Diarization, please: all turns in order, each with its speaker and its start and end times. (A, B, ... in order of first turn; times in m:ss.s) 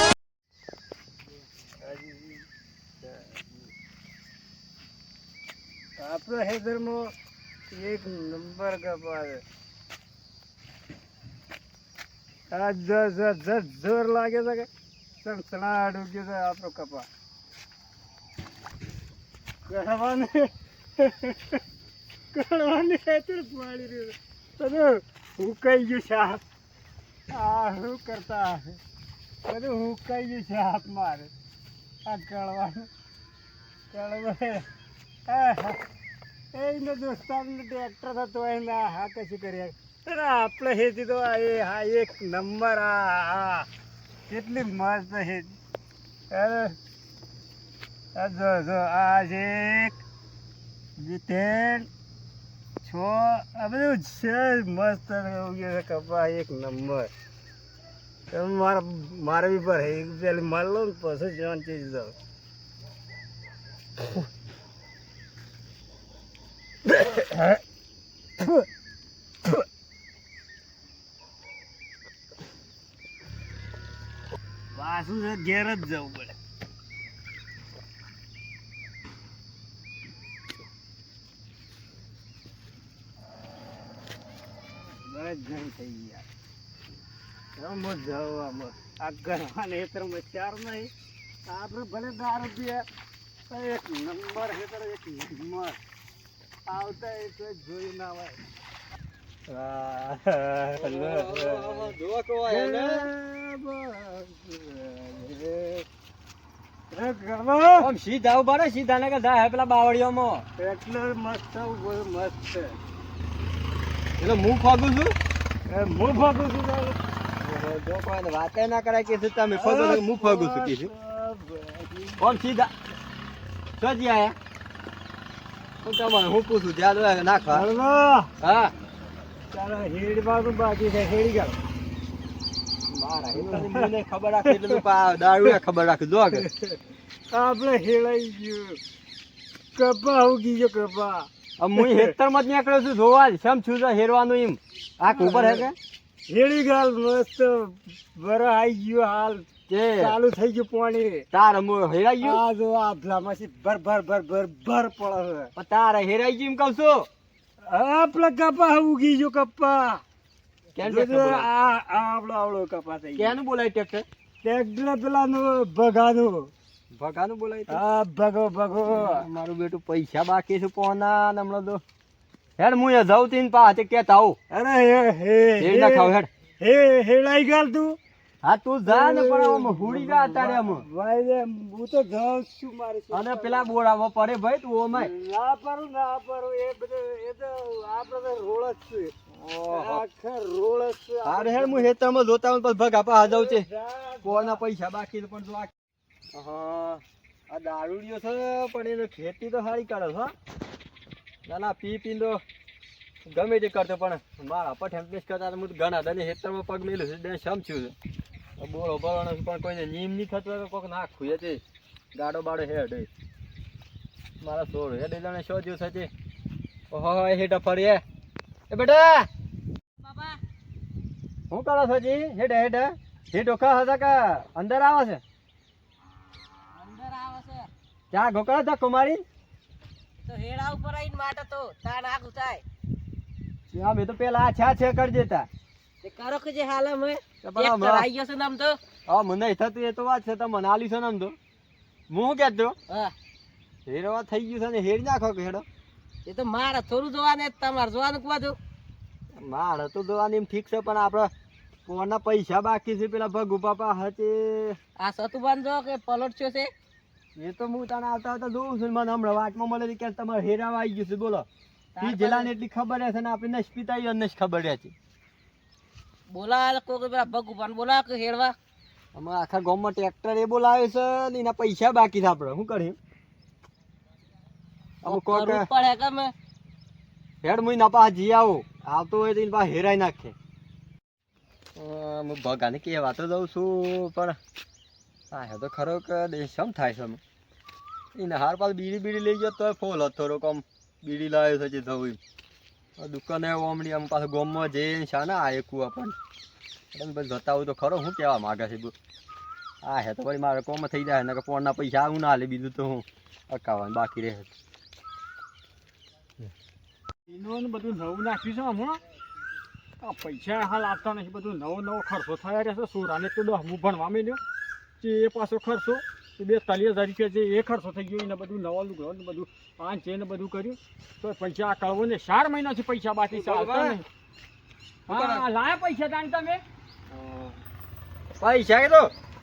0:01.8-0:02.4 A
0:03.0-0:03.4 A
0:06.0-0:07.1 A
0:07.7-0:09.4 A
0:12.5-0:14.7 A
0:15.2-0:17.1 A
0:19.7-0:21.6 A
0:22.3-0:26.4 A
0:27.3-0:28.8 A
0:29.4-0:31.3 A
0:32.0-0:32.9 A
0:33.9-0:34.7 A
0:35.3-0:35.8 A
0:36.5-0:43.7 A
0:44.3-0:45.5 A
0:46.3-0:46.8 A
0:48.2-0:50.0 A
0:51.0-0:51.9 A
0:52.8-0:57.1 A
0:58.3-1:02.2 A
1:06.8-1:07.6 A
1:08.4-1:08.7 A
1:14.8-1:16.3 A
1:25.0-1:26.2 A
1:27.6-1:30.9 A
1:31.5-1:32.9 A
1:33.5-1:35.8 A
1:36.7-1:38.4 A
1:39.5-1:41.9 A
1:40.8-1:43.1 B
1:42.5-1:45.8 A
1:46.9-1:47.9 A
1:47.8-1:50.4 B
1:50.6-1:52.8 A
1:54.2-1:55.2 B
1:55.7-1:57.0 A
1:57.4-2:00.9 B
1:59.5-2:02.4 A
2:02.2-2:02.7 B
2:03.8-2:04.4 B
2:05.8-2:07.7 B
2:07.5-2:08.3 A
2:08.4-2:08.7 B
2:09.5-2:11.6 A
2:12.9-2:16.5 B
2:13.3-2:13.9 A
2:14.5-2:14.8 A
2:16.3-2:16.8 A
2:17.3-2:18.8 A
2:19.8-2:22.1 A
2:21.6-2:25.8 B
2:25.1-2:25.7 A
2:26.3-2:31.2 A
2:29.7-2:30.2 B
2:31.3-2:32.4 B
2:32.2-2:35.5 A
2:35.6-2:37.1 B
2:37.6-2:40.0 A
2:40.8-2:41.5 B
2:40.8-2:43.3 A
2:43.2-2:44.0 B
2:44.4-2:46.5 A
2:47.0-2:47.8 B
2:47.7-2:49.3 A
2:48.9-2:51.8 B
2:52.6-2:54.4 B
2:54.5-2:58.0 A
2:55.6-2:56.3 B
2:58.4-3:00.8 B
2:58.9-3:03.7 A
3:03.1-3:05.1 B
3:04.9-3:09.2 A
3:09.4-3:10.0 B
3:09.7-3:11.9 A
3:11.2-3:13.7 B
3:13.2-3:14.6 A
3:14.2-3:15.7 B
3:16.3-3:20.3 B
3:21.5-3:22.4 B
3:23.3-3:27.9 B
3:28.6-3:31.6 B
3:32.2-3:33.1 B
3:34.4-3:36.1 B
3:36.9-3:38.0 B
3:38.7-3:39.3 B
3:40.0-3:40.4 C
3:41.5-3:45.2 B
3:46.8-3:47.7 C
3:48.1-3:49.2 B
3:50.2-3:52.6 C
3:53.7-3:55.5 B
3:56.0-3:58.8 C
3:57.4-3:58.1 B
3:59.1-4:01.4 B
4:02.1-4:02.8 B
4:03.9-4:05.6 B
4:06.2-4:08.6 C
4:09.4-4:11.3 B
4:11.9-4:14.8 B
4:15.0-4:16.7 C
4:17.4-4:21.5 B
4:22.0-4:22.5 C
4:22.0-4:24.9 B
4:26.3-4:28.6 C
4:29.1-4:33.0 B
4:35.0-4:35.7 B
4:35.0-4:36.3 C
4:37.4-4:40.4 B
4:41.8-4:44.4 B
4:45.3-4:47.2 B
4:48.2-4:52.2 B
4:53.0-4:56.2 B
4:56.9-4:58.9 B
4:59.8-5:04.5 B
5:07.3-5:09.0 D
5:10.0-5:14.4 D
5:15.0-5:24.0 D
5:23.3-5:24.0 B
5:25.1-5:26.6 D
5:25.1-5:25.4 B
5:27.1-5:27.6 B
5:28.4-5:29.1 B